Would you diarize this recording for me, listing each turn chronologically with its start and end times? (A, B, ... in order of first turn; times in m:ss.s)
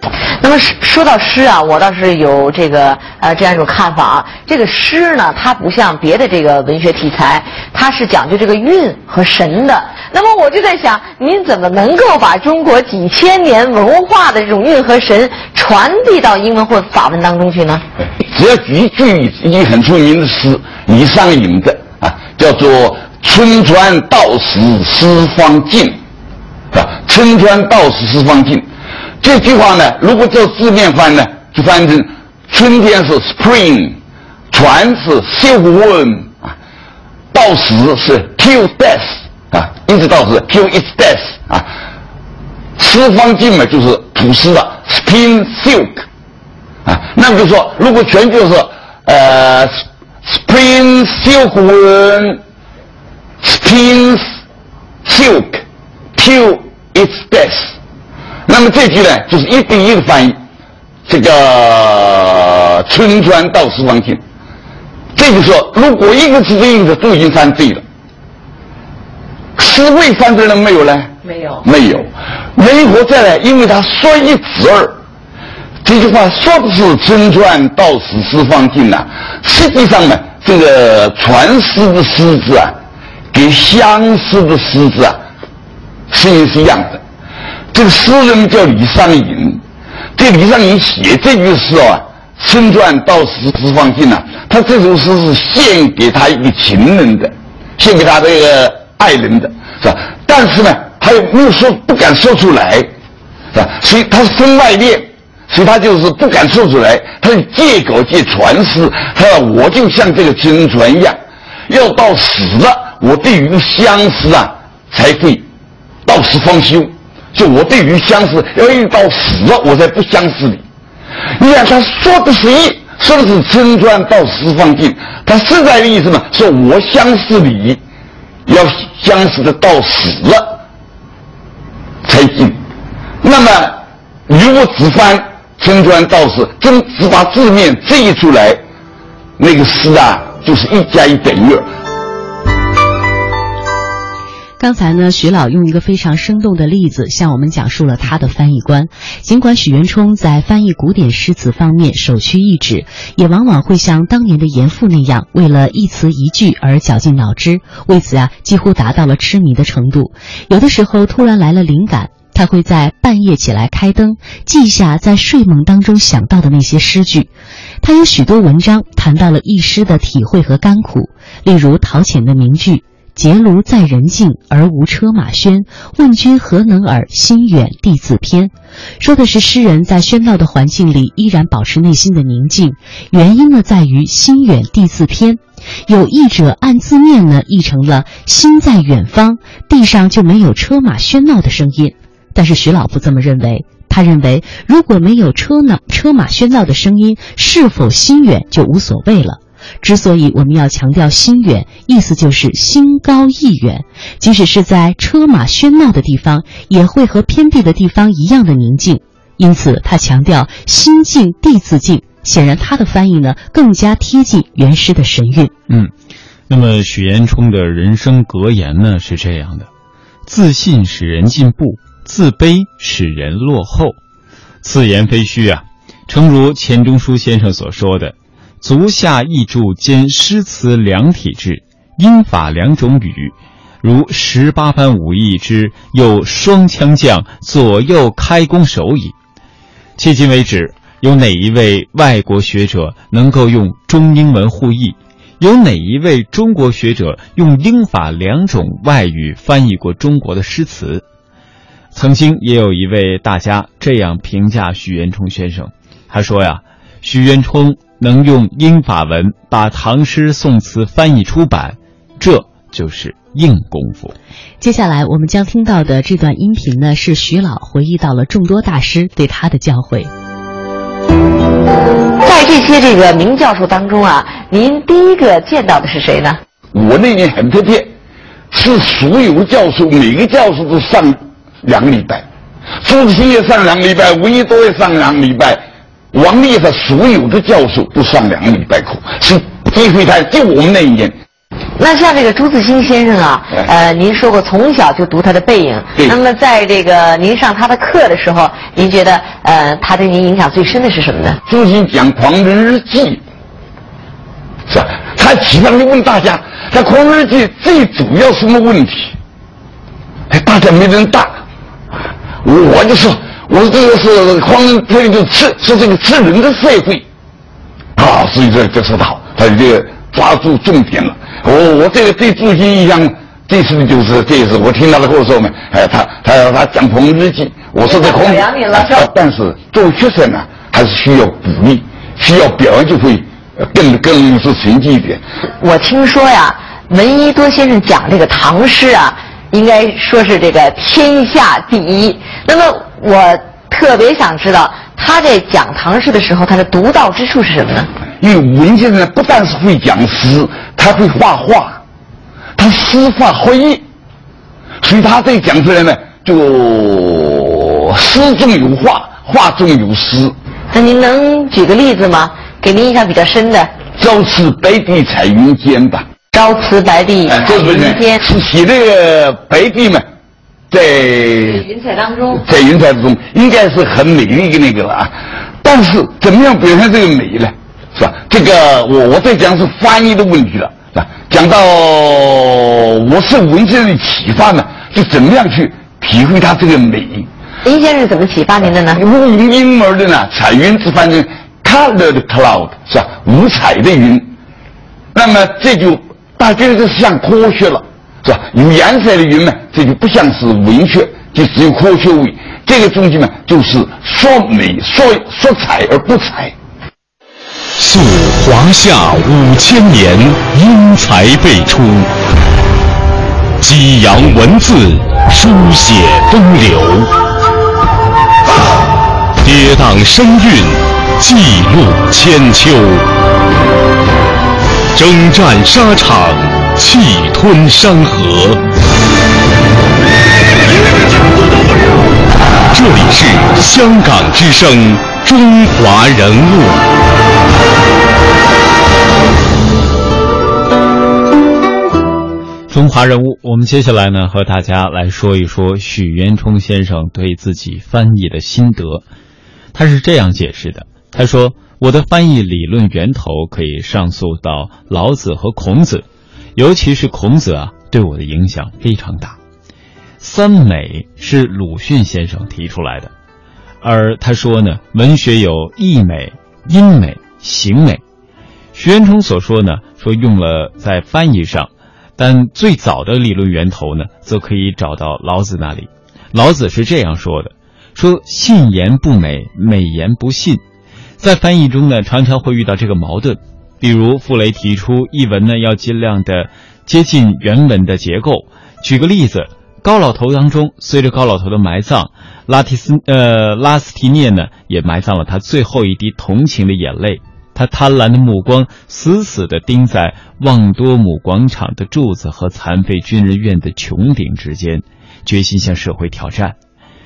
0:00.4-0:17.8 A
0:18.2-0:26.0 B
0:26.7-0:28.7 B
0:29.2-0:34.0 B
0:34.5-0:36.5 B
0:37.3-0:41.7 B
0:42.8-0:46.0 B
0:46.8-0:52.4 B
0:53.4-0:54.2 B
0:55.0-0:55.6 B
0:56.2-0:57.8 B
0:58.5-1:00.4 B
1:01.1-1:04.2 B
1:05.1-1:07.8 B
1:09.6-1:15.0 B
1:15.8-1:22.7 B
1:23.3-1:25.2 B
1:26.1-1:27.0 B
1:27.7-1:29.6 B
1:30.2-1:42.9 B
1:43.5-1:55.4 B
1:56.0-2:00.6 B
2:01.4-2:07.8 B
2:08.5-2:10.6 B
2:12.0-2:12.6 B
2:13.2-2:18.6 B
2:19.4-2:21.6 B
2:24.6-3:35.5 C
3:36.5-3:39.7 D
3:40.2-3:44.0 D
3:44.6-3:59.1 D
4:00.0-4:11.0 D
4:11.9-4:24.1 D
4:24.6-4:30.1 C
4:32.2-4:36.4 A
4:36.7-4:37.9 B
4:38.5-4:42.2 B
4:42.8-4:45.6 B
4:46.1-4:51.2 B
4:51.8-5:01.4 A
5:01.5-5:03.2 B
5:04.7-5:09.1 B
5:10.3-5:11.4 B
5:12.4-5:17.0 B
5:18.0-5:35.2 B
5:27.8-5:28.8 A
5:35.6-5:47.9 A
5:48.2-5:51.8 B
5:52.6-5:53.8 B
5:54.8-6:00.3 B
6:00.7-6:03.7 A
6:04.0-6:06.1 B
6:06.3-6:08.2 A
6:07.3-6:10.0 B
6:10.7-6:27.3 B
6:27.6-6:29.0 A
6:28.9-6:34.3 B
6:35.1-6:46.5 B
6:47.8-6:52.1 E
6:53.6-6:57.1 E
6:59.4-7:03.1 E
7:04.9-7:08.6 E
7:12.7-7:16.8 E
7:22.7-7:29.0 D
7:29.7-7:36.0 D
7:36.6-7:39.4 D
7:40.2-7:43.1 D
7:43.8-7:48.0 D
7:48.7-8:00.6 D
8:01.2-8:26.6 D